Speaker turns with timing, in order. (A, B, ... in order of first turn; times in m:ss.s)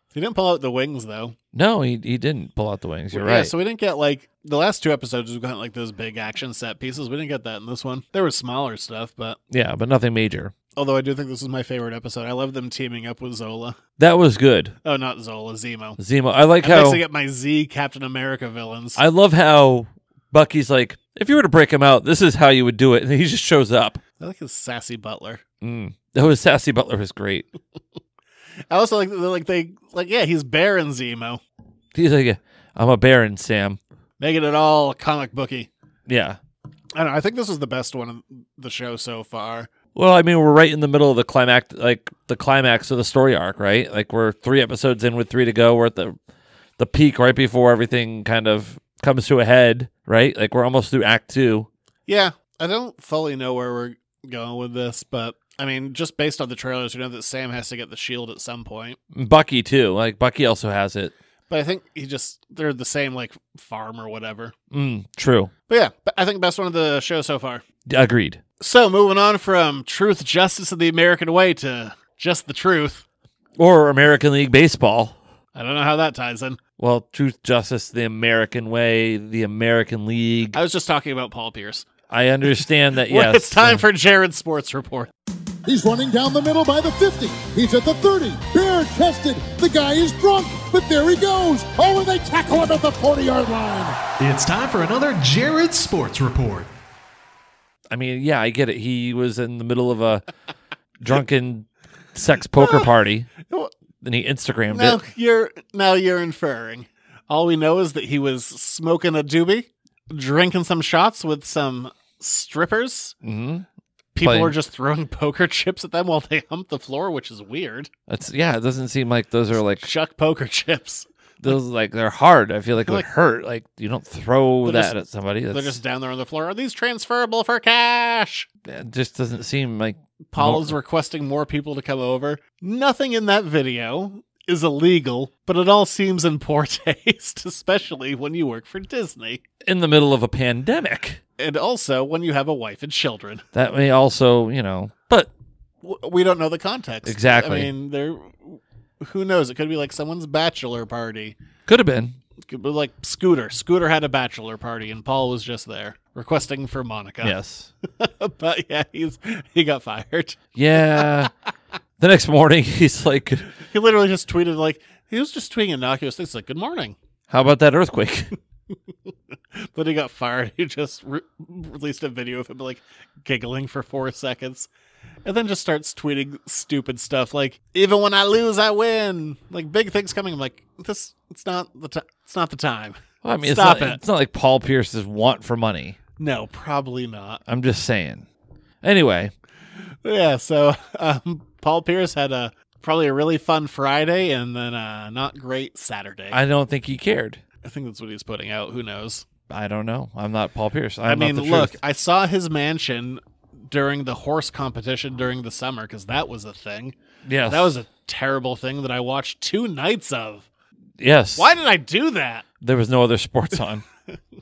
0:00.1-0:01.4 A
0:01.5-0:03.5 B
0:03.1-0:09.4 A
0:09.5-0:10.5 B
0:10.8-0:13.8 A
0:14.0-0:14.8 B
0:14.8-0:16.0 A
0:16.0-0:17.0 B
0:16.6-0:19.0 A
0:19.0-0:24.0 B
0:24.2-0:25.4 A
0:25.6-0:27.5 B
0:28.7-0:31.4 A
0:31.9-0:33.8 B
0:34.2-0:35.7 A
0:36.1-0:36.4 B
0:36.9-0:39.7 A
0:39.9-0:46.2 B
0:46.8-0:51.7 B
0:52.1-0:59.0 A
0:59.1-1:01.1 B
1:01.5-1:04.5 A
1:04.7-1:05.5 B
1:05.7-1:07.6 A
1:07.8-1:08.4 B
1:08.6-1:13.0 A
1:13.6-1:15.2 B
1:15.5-1:16.6 A
1:16.8-1:20.6 B
1:20.5-1:21.8 A
1:22.1-1:23.8 B
1:23.0-1:25.1 A
1:25.6-1:34.0 C
1:34.2-1:36.7 D
1:37.9-1:40.2 B
1:41.0-1:43.3 B
1:42.6-1:42.9 A
1:43.5-1:43.7 A
1:44.0-1:45.0 B
1:44.7-1:53.1 A
1:53.2-1:53.6 B
1:54.1-1:57.9 A
1:54.2-1:54.5 B
1:58.1-1:59.9 B
1:59.8-2:01.6 A
2:01.4-2:05.8 B
2:04.6-2:04.9 A
2:05.5-2:08.5 A
2:08.6-2:10.7 B
2:10.3-2:19.4 A
2:19.6-2:21.2 B
2:21.4-2:23.4 A
2:23.5-2:25.3 B
2:25.8-2:31.4 A
2:27.0-2:27.7 B
2:31.7-2:32.2 B
2:32.5-2:37.4 A
2:37.2-2:37.7 B
2:38.0-2:40.4 A
2:40.5-2:41.3 B
2:42.0-2:43.5 B
2:43.7-2:47.0 A
2:47.3-2:48.3 B
2:49.5-2:54.7 A
2:55.2-3:04.0 A
3:03.2-3:06.0 B
3:06.2-3:07.4 A
3:07.5-3:08.3 B
3:08.8-3:09.3 B
3:10.0-3:16.4 A
3:16.3-3:17.4 B
3:17.6-3:19.3 A
3:19.5-3:21.8 B
3:21.0-3:26.9 A
3:27.2-3:27.7 B
3:27.5-3:30.5 A
3:31.0-3:31.5 B
3:31.4-3:32.4 A
3:32.6-3:33.8 B